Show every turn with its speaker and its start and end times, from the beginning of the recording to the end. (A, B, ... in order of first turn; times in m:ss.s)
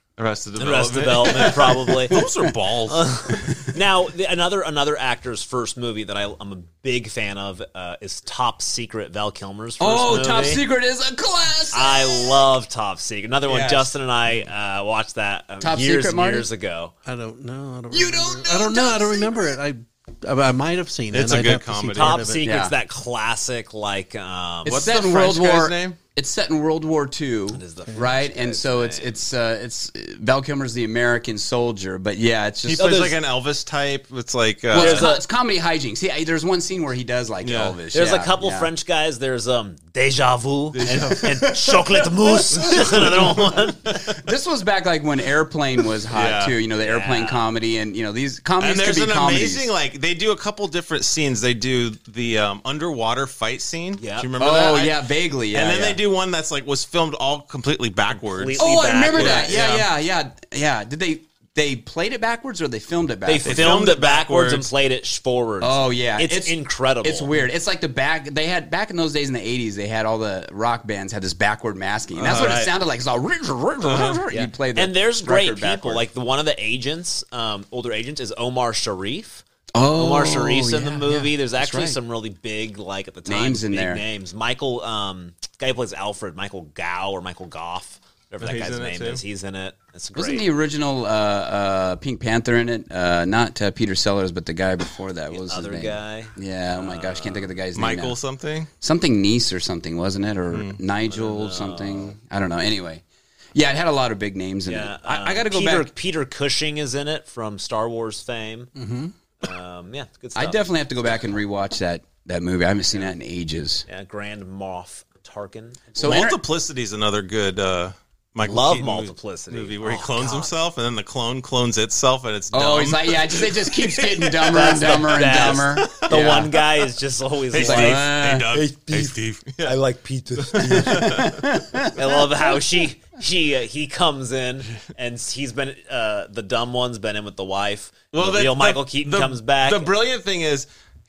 0:00.2-0:03.1 A
0:00.6-0:02.2 B
0:02.9-0:10.6 B
0:09.8-0:12.4 C
0:11.7-0:16.9 B
0:13.4-0:13.9 C
0:15.6-0:16.5 C
0:17.0-0:22.4 D
0:17.9-0:19.5 C
0:21.1-0:22.2 A
0:22.0-0:24.9 B
0:22.4-0:22.7 C
0:24.6-0:26.0 A
0:24.6-0:33.0 C
0:27.5-0:29.2 B
0:32.6-0:35.1 A
0:32.8-0:33.2 B
0:34.7-0:35.2 B
0:34.7-0:38.7 C
0:37.4-0:37.8 A
0:37.9-0:43.9 B
0:40.7-0:41.3 A
0:40.8-0:42.0 C
0:42.6-0:49.7 C
0:42.6-0:43.4 A
0:46.1-0:46.6 A
0:46.8-0:47.4 B
0:48.6-0:59.9 A
0:54.0-0:54.3 B
0:54.4-0:56.0 C
0:58.1-0:59.6 B
0:58.6-1:03.7 C
1:03.2-1:07.3 B
1:03.4-1:04.7 A
1:05.6-1:16.0 C
1:12.2-1:12.7 B
1:12.2-1:12.7 A
1:13.8-1:14.2 A
1:14.3-1:19.4 B
1:19.7-1:22.0 C
1:19.9-1:30.4 B
1:23.3-1:24.0 C
1:28.4-1:29.2 A
1:30.1-1:38.1 C
1:35.3-1:37.5 B
1:37.7-1:38.7 A
1:38.8-1:43.0 C
1:40.5-1:40.8 A
1:41.1-1:42.2 B
1:43.5-1:45.9 C
1:44.6-1:48.7 B
1:48.8-1:49.1 D
1:49.4-1:50.6 B
1:50.4-1:53.8 C
1:53.9-1:56.0 B
1:55.9-1:56.4 C
1:56.0-2:06.4 A
1:58.4-2:00.5 B
2:02.5-2:06.5 C
2:04.5-2:11.1 B
2:07.5-2:09.8 A
2:07.6-2:08.5 C
2:10.4-2:11.4 A
2:10.6-2:11.9 C
2:11.9-2:19.9 B
2:18.1-2:20.7 A